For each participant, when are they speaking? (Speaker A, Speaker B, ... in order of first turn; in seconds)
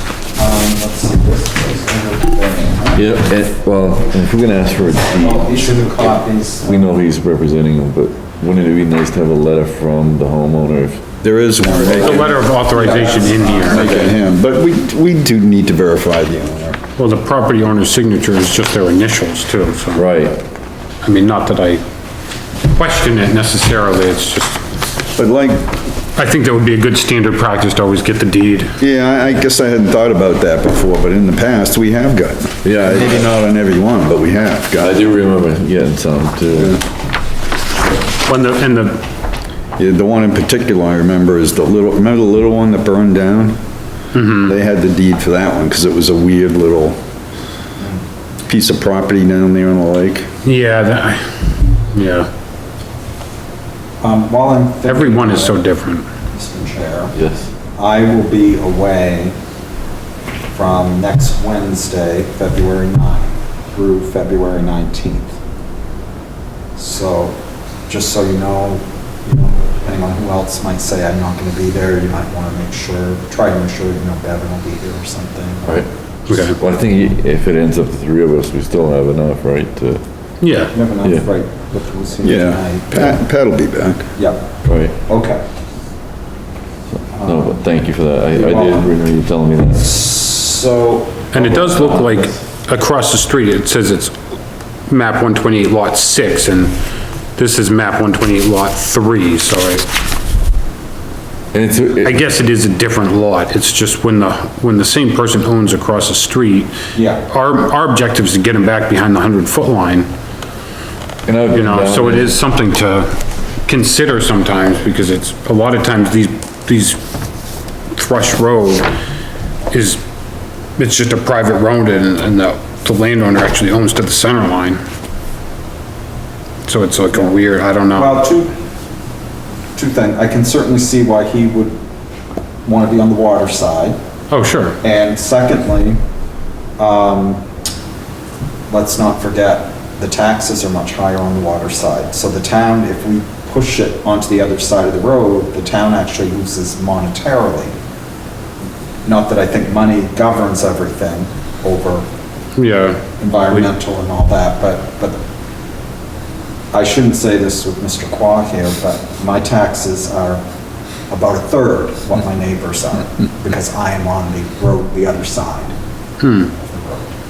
Speaker A: 0.3-3.1, 5.1-7.0, 11.6-14.2, 54.0-55.7, 56.3-57.1, 57.8-59.4, 60.5-65.4, 66.8-75.8, 80.7-83.2, 84.2-84.5, 85.0-85.4, 87.1-87.5, 88.3-88.9, 89.8-91.3, 107.0-107.2, 127.9-128.5, 129.8-131.8, 132.7-134.0, 134.8-136.0, 136.8-137.4, 138.7-147.8, 149.1-152.1, 153.2-155.2, 156.7-160.4, 161.1-165.8, 166.5-167.1
Speaker B: 2.9-6.1, 6.6-11.1, 19.9-20.4, 32.6-33.3, 34.7-36.8, 57.1-57.5, 75.7-80.0, 84.7-84.9, 87.0-90.0, 91.3-92.3, 101.5-102.2, 111.3-112.4
Speaker C: 11.2-12.4, 13.6-16.8, 25.1-25.7, 28.8-34.8, 36.5-36.8, 39.8-43.6, 44.4-47.0, 48.5-50.3, 82.2-84.1
Speaker D: 11.8-13.9, 17.0-20.0, 21.0-21.8, 22.7-24.6, 26.2-28.8, 38.3-39.0, 44.1-44.5, 50.5-52.3, 54.9-56.0, 76.3-76.6, 80.4-80.7, 91.3-94.1, 94.9-96.8, 97.4-99.9, 102.0-106.7, 107.3-110.1, 111.5-113.1, 113.7-117.0, 118.0-118.9, 119.7-120.0, 120.8-124.8, 126.7-128.2, 134.3-134.8, 152.6-153.0, 166.2-166.5